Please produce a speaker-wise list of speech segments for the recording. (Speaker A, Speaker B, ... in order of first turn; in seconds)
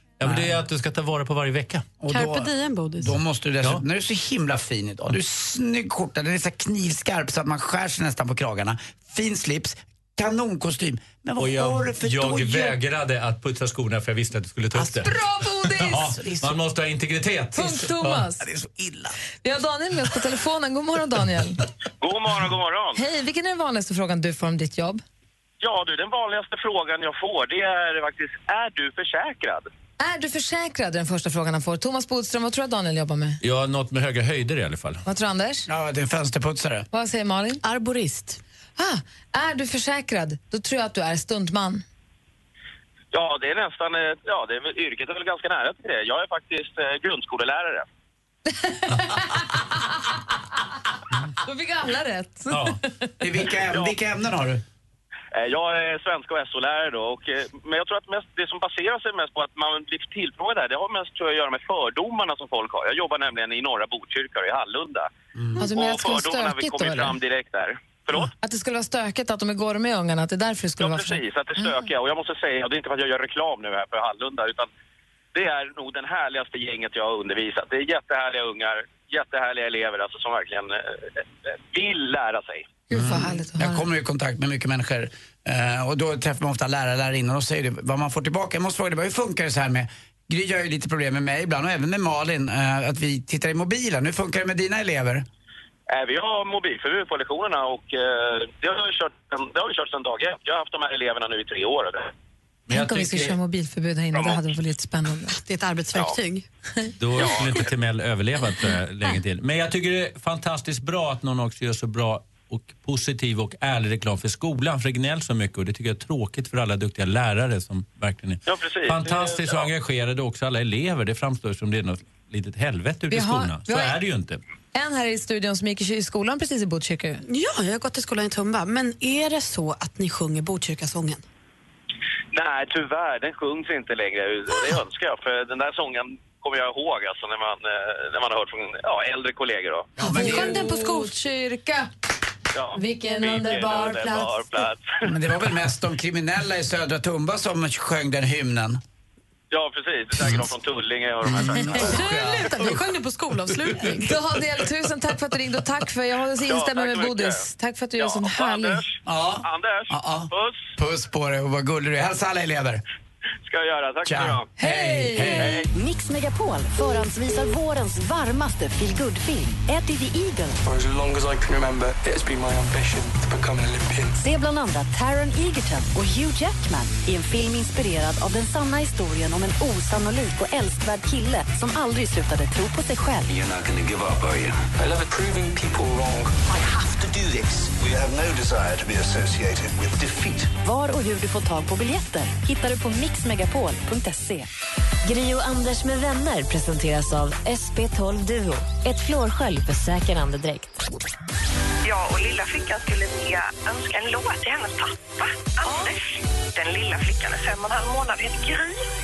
Speaker A: 0.2-2.0, 11.4-15.2, 15.7-18.3, 33.4-35.0, 52.5-52.8, 102.7-103.3, 107.0-124.4
Speaker B: 0.2-0.5, 2.0-12.8, 18.4-19.1, 35.7-36.9, 53.2-54.6, 65.3-65.6, 82.9-95.2, 140.0-140.7, 145.0-148.8, 150.2-150.5, 151.2-152.8, 159.1-162.8, 164.0-165.6
Speaker C: 2.1-3.2, 37.6-38.4, 105.3-106.5, 127.3-131.2, 140.0-141.1, 151.8-154.1
Speaker D: 15.0-16.2, 17.5-18.4, 19.4-21.6, 22.9-25.0, 30.0-33.4, 35.0-35.7, 36.9-37.6, 38.8-41.8, 48.5-49.9, 51.4-53.1, 65.6-67.2, 68.4-71.8, 82.9-83.9, 102.7-105.4, 123.1-124.0, 124.7-127.2, 140.0-141.9, 142.7-144.4, 154.0-158.8, 164.6-165.6
Speaker E: 22.0-23.0, 25.6-29.7, 43.1-47.9, 55.3-68.3, 70.8-74.7, 75.3-82.7, 95.9-102.1, 104.2-104.4, 107.2-107.5, 118.5-119.7, 132.3-139.9, 142.5-145.1, 149.5-152.0, 156.4-157.4, 158.0-160.7, 163.4-164.5, 165.3-165.7
Speaker F: 165.7-170.6, 174.2-183.3, 190.6-194.5, 195.0-200.8
Speaker G: 170.6-174.2, 184.8-186.3
Speaker H: 183.3-184.7, 186.6-190.5
Speaker I: 201.9-204.9, 206.6-208.7